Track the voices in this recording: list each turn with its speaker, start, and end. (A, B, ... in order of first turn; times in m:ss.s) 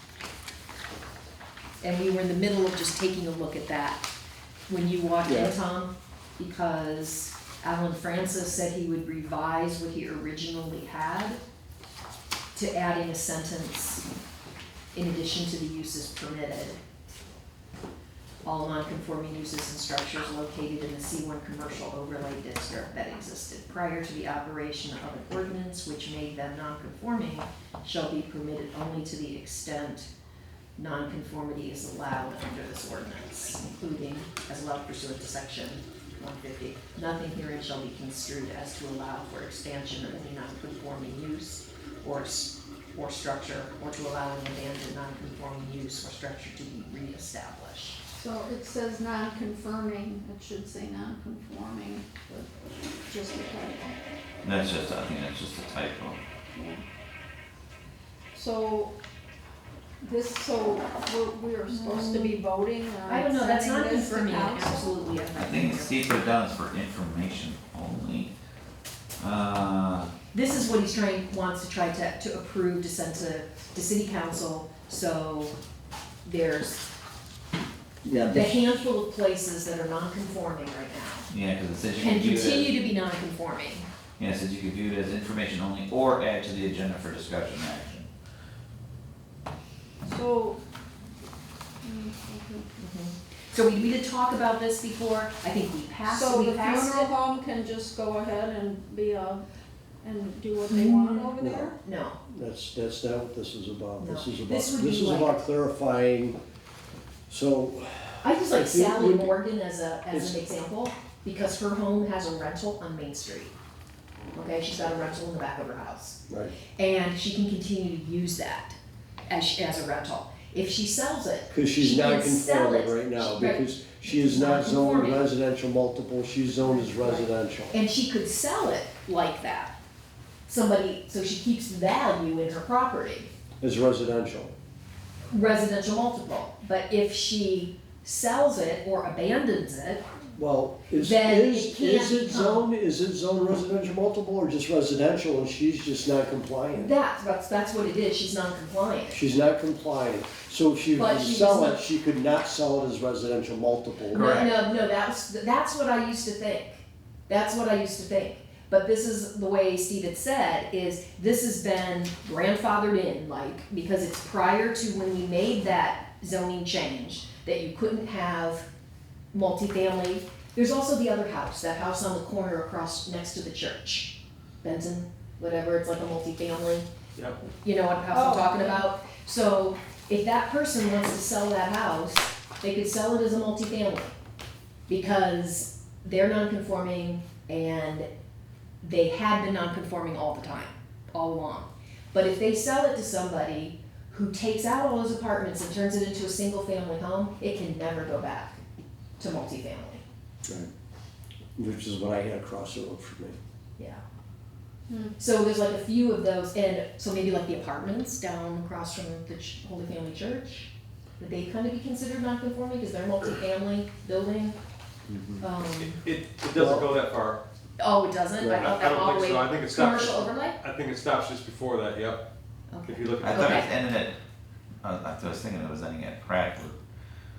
0:01.8-0:04.1 A
0:04.7-0:11.4 A
0:05.2-0:05.5 B
0:12.5-0:14.1 A
0:14.9-0:16.8 A
0:18.4-0:30.1 A
0:30.8-0:48.0 A
0:48.1-0:52.5 C
0:53.0-0:54.0 C
0:54.4-0:56.2 D
0:56.5-0:56.8 C
0:58.3-0:58.9 C
1:00.0-1:05.0 C
1:01.7-1:02.4 A
1:03.1-1:06.0 A
1:05.3-1:08.3 D
1:09.2-1:10.1 D
1:10.3-1:15.5 A
1:16.2-1:16.8 A
1:18.0-1:18.5 D
1:18.3-1:21.3 A
1:21.3-1:22.7 D
1:22.0-1:23.9 A
1:24.2-1:28.1 D
1:30.0-1:30.6 C
1:31.8-1:32.6 C
1:32.8-1:37.1 A
1:36.0-1:39.4 C
1:40.0-1:41.8 C
1:40.7-1:42.2 A
1:41.4-1:41.7 B
1:42.3-1:46.4 B
1:44.0-1:45.4 A
1:47.3-1:49.3 B
1:48.2-1:53.5 A
1:50.1-1:50.4 B
1:54.3-1:56.2 A
1:56.8-1:58.8 A
1:59.3-2:05.2 A
2:01.5-2:07.8 B
2:06.6-2:09.7 A
2:10.5-2:13.3 A
2:13.6-2:14.5 B
2:15.3-2:20.0 A
2:20.4-2:26.9 B
2:21.0-2:22.6 A
2:26.7-2:29.2 A
2:29.1-2:34.3 B
2:31.0-2:31.8 A
2:34.1-2:48.6 A
2:49.3-2:56.8 A
2:57.5-3:04.1 A
2:58.1-2:58.8 C
3:04.9-3:08.1 A
3:08.8-3:18.6 A
3:19.2-3:20.0 A
3:21.6-3:23.4 B
3:24.9-3:25.2 C
3:25.2-3:34.5 A
3:35.4-3:36.0 A
3:35.8-3:37.4 E
3:36.5-3:36.9 B
3:37.8-3:40.6 A
3:38.4-3:38.7 B
3:38.5-3:42.2 E
3:42.7-3:43.7 A
3:42.8-3:43.7 E
3:43.2-3:44.2 D
3:44.8-3:46.8 D